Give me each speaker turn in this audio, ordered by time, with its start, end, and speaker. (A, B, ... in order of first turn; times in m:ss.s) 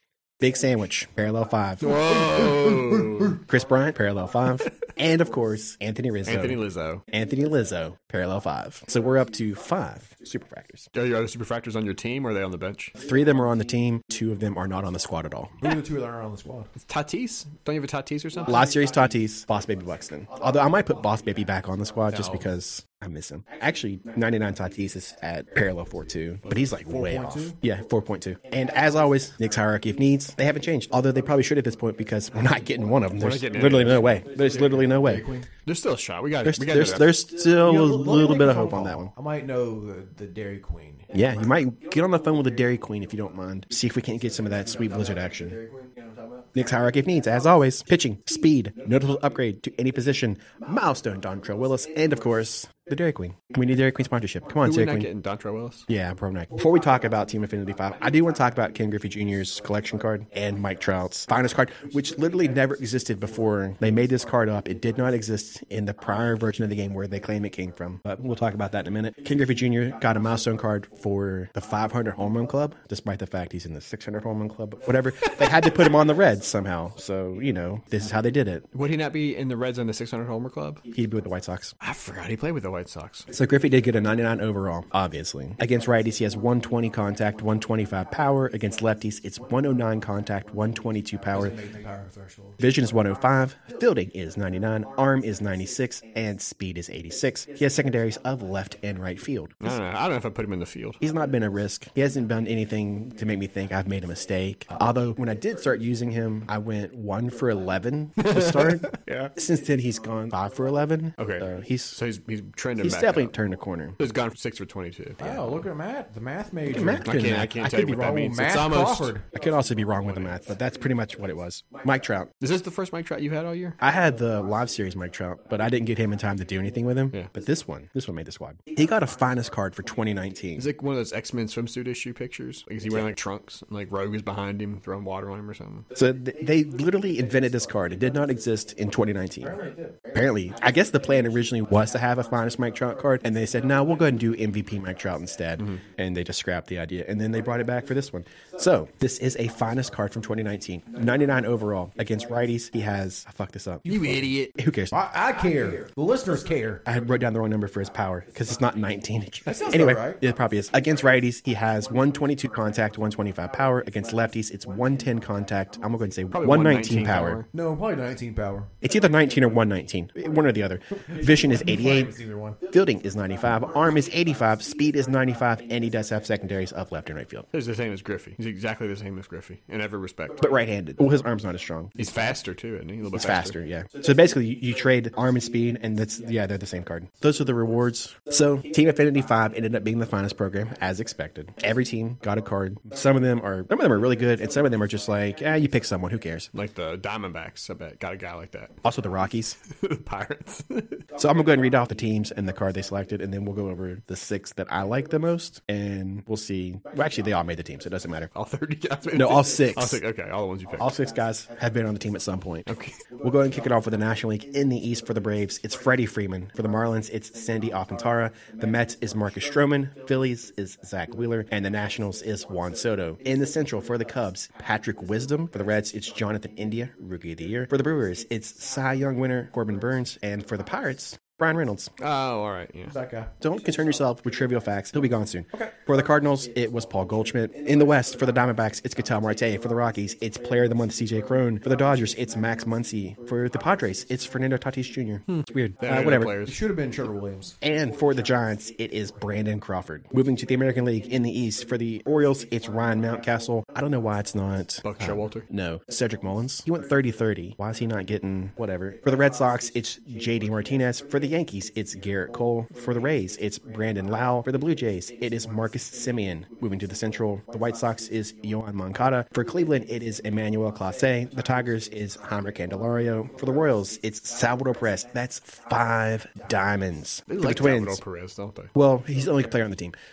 0:00.4-0:01.9 A
0:01.8-0:03.4 B
0:01.8-0:03.4 C
0:03.4-0:10.8 A
0:06.2-0:07.0 C
0:10.9-0:12.9 C
0:13.0-0:15.5 A
0:15.6-0:16.7 B
0:16.8-0:18.6 C
0:18.4-0:35.3 A
0:22.1-0:22.5 B
0:26.6-0:27.6 B
0:33.2-0:34.2 C
0:34.3-0:35.5 B
0:35.6-0:37.1 C
0:36.4-0:39.1 A
0:37.6-0:41.1 B
0:41.1-0:45.6 A
0:45.6-0:46.4 B
0:46.5-0:55.1 A
0:54.6-0:55.9 C
0:55.9-1:18.7 A
1:18.7-1:20.8 C
1:20.9-1:21.7 A
1:21.8-1:23.3 C
1:23.3-1:31.6 A
1:31.3-1:32.6 B
1:32.6-1:39.7 A
1:39.6-1:41.0 C
1:41.0-1:52.0 A
1:48.2-1:49.3 C
1:51.2-1:53.3 C
1:52.8-1:54.0 A
1:54.0-1:55.6 C
1:55.2-1:57.2 B
1:56.7-1:58.1 A
1:57.0-1:59.1 C
1:57.7-1:59.2 B
1:59.3-2:02.3 A
2:00.0-2:00.4 C
2:02.4-2:03.8 C
2:03.8-2:10.7 A
2:10.6-2:15.9 C
2:15.9-2:19.6 A
2:19.4-2:19.9 B
2:20.1-2:33.9 A
2:33.9-2:34.2 B
2:33.9-2:34.5 C
2:34.6-2:35.0 A
2:34.9-2:36.8 B
2:36.8-2:47.4 A
2:39.4-2:40.2 B
2:46.3-2:47.5 C
2:47.5-2:48.7 B
2:48.8-2:52.1 A
2:51.1-2:52.6 B
2:52.7-2:57.5 A
2:57.5-3:00.4 C
3:00.4-3:02.0 A
3:02.0-3:03.6 C
3:03.1-3:16.5 A
3:16.5-3:18.8 C
3:18.8-3:19.6 A
3:19.7-3:21.0 C
3:21.2-3:28.3 A
3:28.3-3:30.9 C
3:29.1-3:30.0 A
3:30.8-3:51.9 A
3:32.7-3:33.0 C
3:52.0-3:52.9 C
3:52.9-3:53.3 B
3:53.4-4:06.4 A
4:05.3-4:06.6 C
4:06.4-4:07.6 B
4:07.6-4:38.0 A
4:14.8-4:15.4 C
4:37.3-4:38.7 C
4:38.7-4:40.0 A